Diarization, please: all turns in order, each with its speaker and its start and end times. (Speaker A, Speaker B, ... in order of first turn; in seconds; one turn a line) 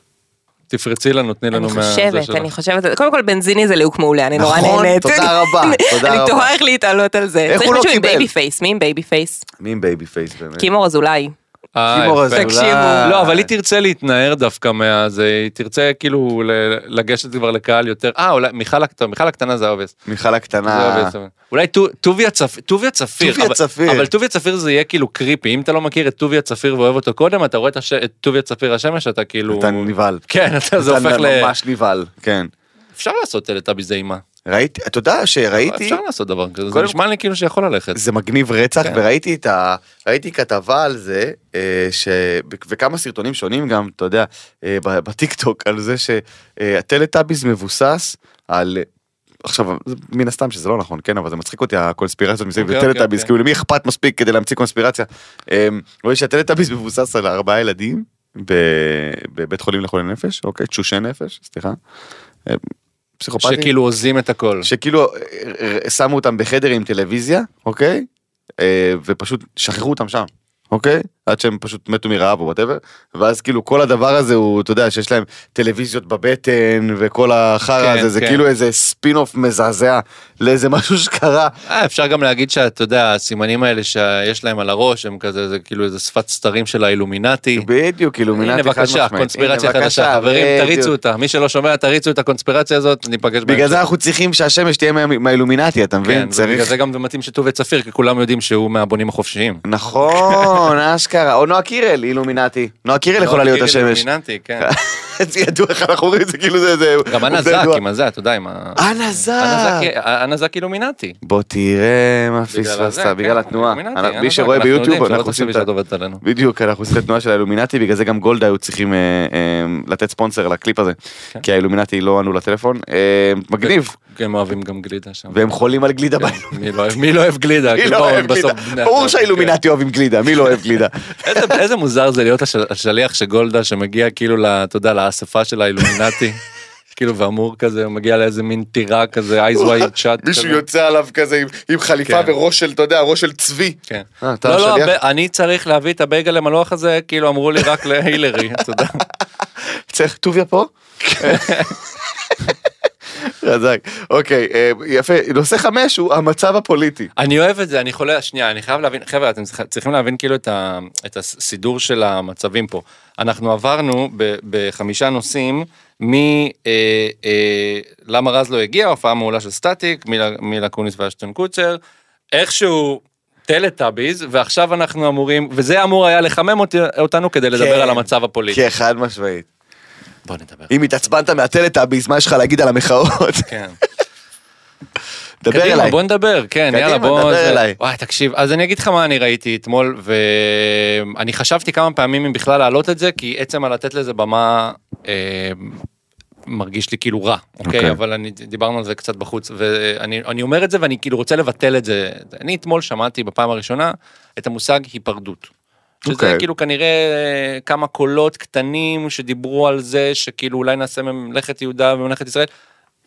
Speaker A: 0.7-2.5
Speaker B: 1.5-9.4
Speaker C: 4.4-6.5
Speaker C: 7.5-8.3
Speaker C: 9.6-10.7
Speaker B: 10.6-11.3
Speaker A: 11.8-19.9
Speaker C: 11.9-13.5
Speaker B: 12.3-13.1
Speaker C: 20.1-21.1
Speaker A: 20.7-31.5
Speaker C: 23.2-24.1
Speaker C: 29.5-30.2
Speaker C: 30.8-32.5
Speaker A: 33.0-34.2
Speaker C: 34.5-36.0
Speaker A: 35.6-38.0
Speaker C: 36.7-37.0
Speaker C: 38.0-48.9
Speaker C: 49.4-61.8
Speaker A: 52.6-53.3
Speaker C: 63.2-63.7
Speaker A: 63.4-64.7
Speaker C: 64.6-68.1
Speaker C: 68.6-81.5
Speaker A: 77.8-78.4
Speaker A: 81.7-87.7
Speaker C: 87.5-90.9
Speaker A: 88.3-93.8
Speaker C: 93.5-96.7
Speaker A: 96.0-100.7
Speaker C: 99.7-104.0
Speaker A: 103.2-104.7
Speaker C: 104.6-107.8
Speaker A: 107.1-108.8
Speaker C: 108.8-109.9
Speaker A: 109.4-111.2
Speaker C: 111.2-115.7
Speaker A: 112.5-116.2
Speaker C: 116.2-124.0
Speaker A: 123.6-125.4
Speaker C: 125.3-126.5
Speaker A: 126.2-129.6
Speaker C: 127.7-131.6
Speaker A: 131.2-136.4
Speaker A: 136.9-140.6
Speaker C: 139.6-144.9
Speaker A: 142.1-142.3
Speaker A: 143.9-149.1
Speaker C: 149.6-151.7
Speaker A: 151.0-151.8
Speaker C: 153.2-157.1
Speaker A: 157.2-171.8
Speaker A: 172.3-178.6
Speaker C: 177.5-179.5
Speaker A: 180.3-180.7
Speaker C: 180.7-183.5
Speaker A: 183.5-183.8
Speaker C: 185.4-186.0
Speaker A: 185.5-195.8
Speaker C: 186.7-187.8
Speaker A: 196.5-205.5
Speaker C: 197.6-198.0
Speaker C: 206.1-206.4
Speaker A: 206.1-212.5